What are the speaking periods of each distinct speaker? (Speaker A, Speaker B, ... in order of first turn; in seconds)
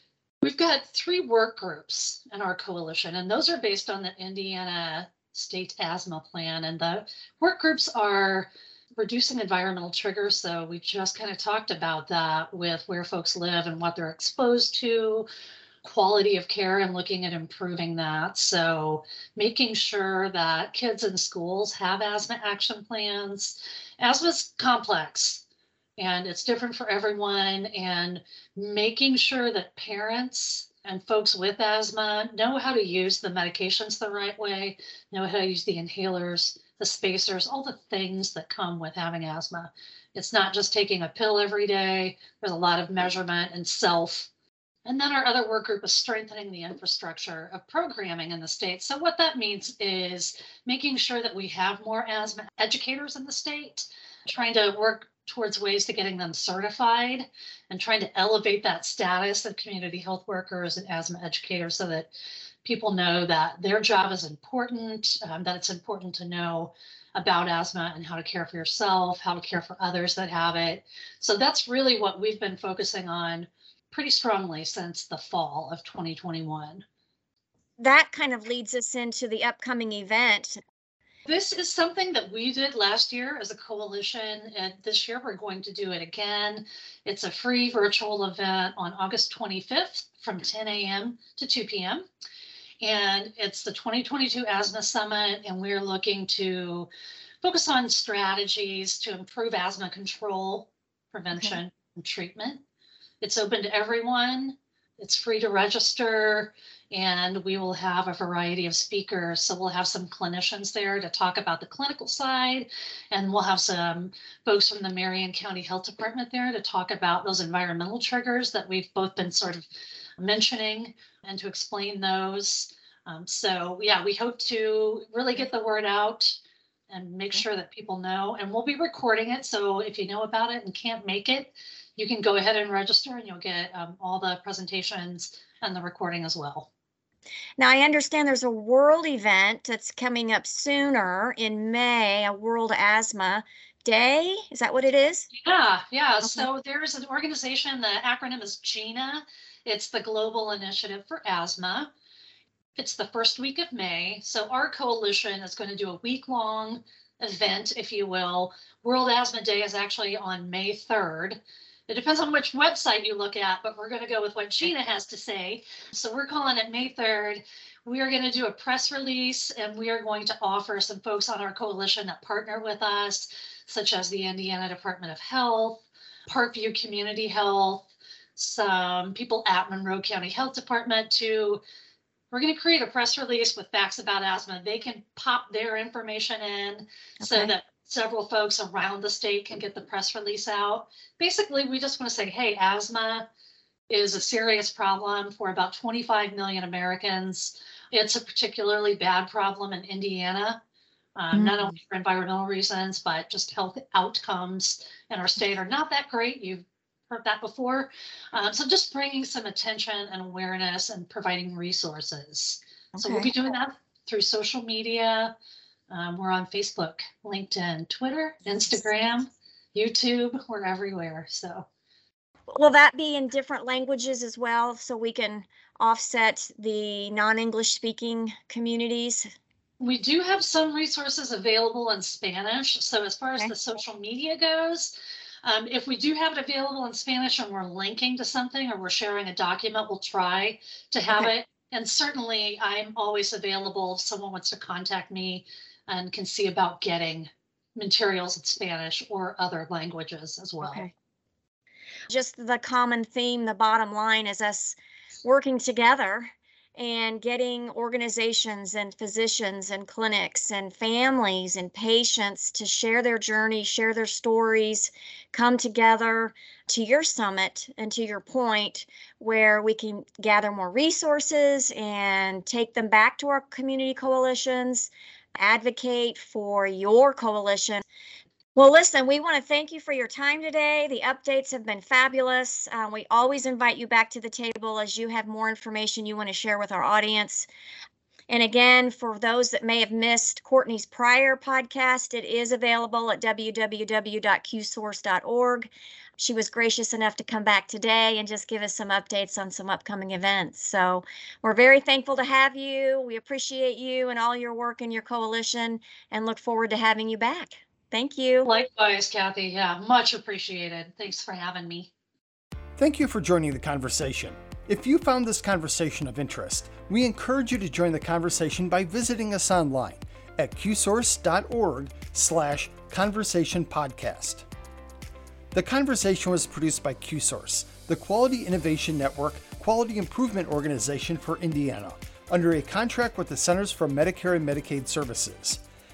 Speaker A: 0.4-15.3, 15.8-25.4, 26.0-44.3, 44.8-62.1, 62.6-76.8, 81.2-92.0, 92.8-96.9, 97.4-102.6, 103.2-119.7, 120.2-126.4, 126.9-136.7, 145.3-151.9, 152.8-181.6, 182.3-193.2, 193.9-200.6, 201.2-215.3, 215.9-221.7, 229.8-234.9, 235.4-250.9, 308.4-311.9
Speaker B: 77.8-80.6, 101.3-101.6, 137.6-145.3, 187.2-187.5, 201.3-201.7, 212.9-213.3, 222.5-229.3, 250.6-250.9, 252.1-277.8, 278.5-287.5, 288.3-308.5
Speaker C: 312.8-324.4, 325.5-335.6